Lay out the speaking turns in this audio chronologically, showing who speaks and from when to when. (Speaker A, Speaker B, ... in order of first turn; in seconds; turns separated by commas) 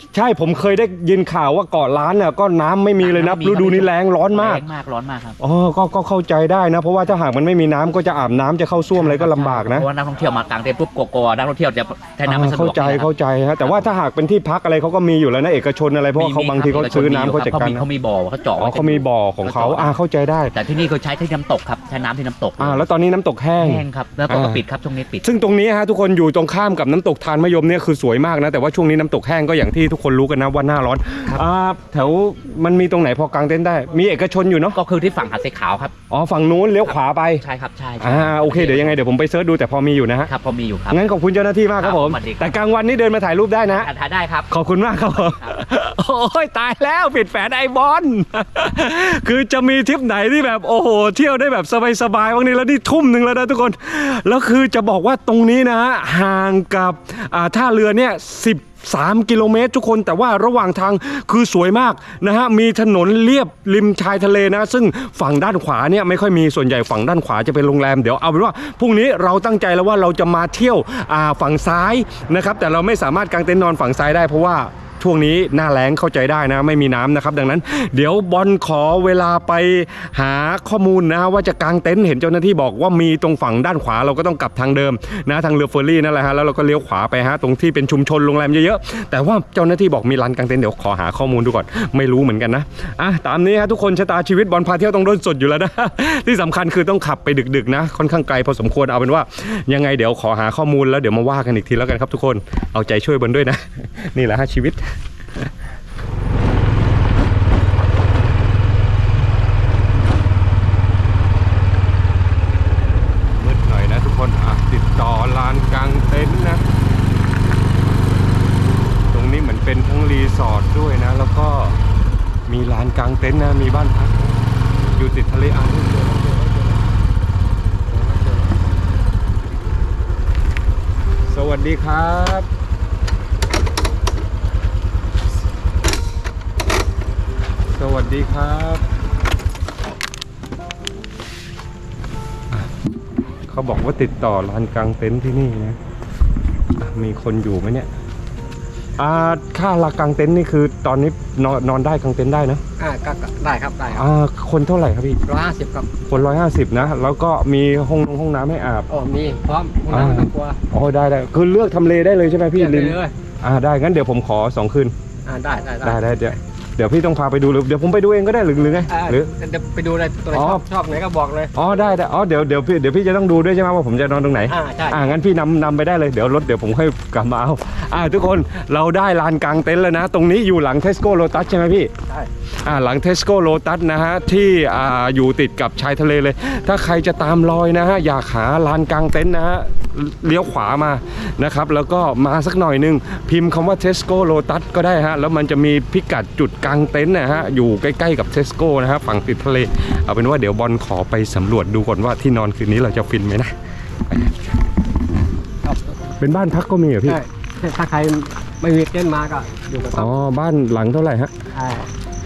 Speaker A: 0.1-4.6, Speaker B: 3.0-5.4, Speaker A: 5.4-9.9, Speaker B: 8.9-13.1, Speaker A: 12.2-17.9, Speaker B: 13.6-13.9, Speaker B: 16.1-20.0, Speaker A: 18.6-20.6, Speaker B: 20.5-22.9, Speaker A: 22.6-24.6, Speaker B: 23.6-25.3, Speaker A: 25.2-34.8, Speaker B: 34.7-35.9, Speaker A: 36.1-37.4, Speaker B: 36.8-39.0, Speaker A: 38.0-40.3, Speaker B: 40.3-41.1, Speaker A: 40.9-43.9, Speaker B: 41.8-42.6, Speaker B: 43.6-44.5, Speaker A: 44.5-104.8, Speaker B: 45.0-45.6, Speaker A: 113.3-116.6, Speaker A: 119.1-121.8, Speaker A: 122.5-124.2, Speaker A: 125.0-126.7, Speaker A: 128.1-128.4, Speaker A: 131.3-132.5, Speaker A: 137.7-138.8, Speaker A: 143.5-145.8, Speaker A: 146.8-147.9, Speaker A: 149.0-152.6, Speaker C: 152.8-154.1, Speaker A: 153.9-155.2, Speaker C: 155.3-156.0, Speaker A: 156.1-158.9, Speaker C: 158.9-160.6, Speaker A: 159.9-164.9, Speaker C: 162.5-163.1, Speaker C: 165.3-166.0, Speaker A: 165.8-169.3, Speaker C: 168.9-171.6, Speaker A: 170.3-170.7, Speaker A: 171.6-181.9, Speaker C: 174.5-175.1, Speaker A: 182.6-203.5, Speaker C: 205.7-206.0, Speaker A: 206.2-207.2, Speaker C: 207.1-210.1, Speaker A: 209.9-211.3, Speaker C: 211.5-211.9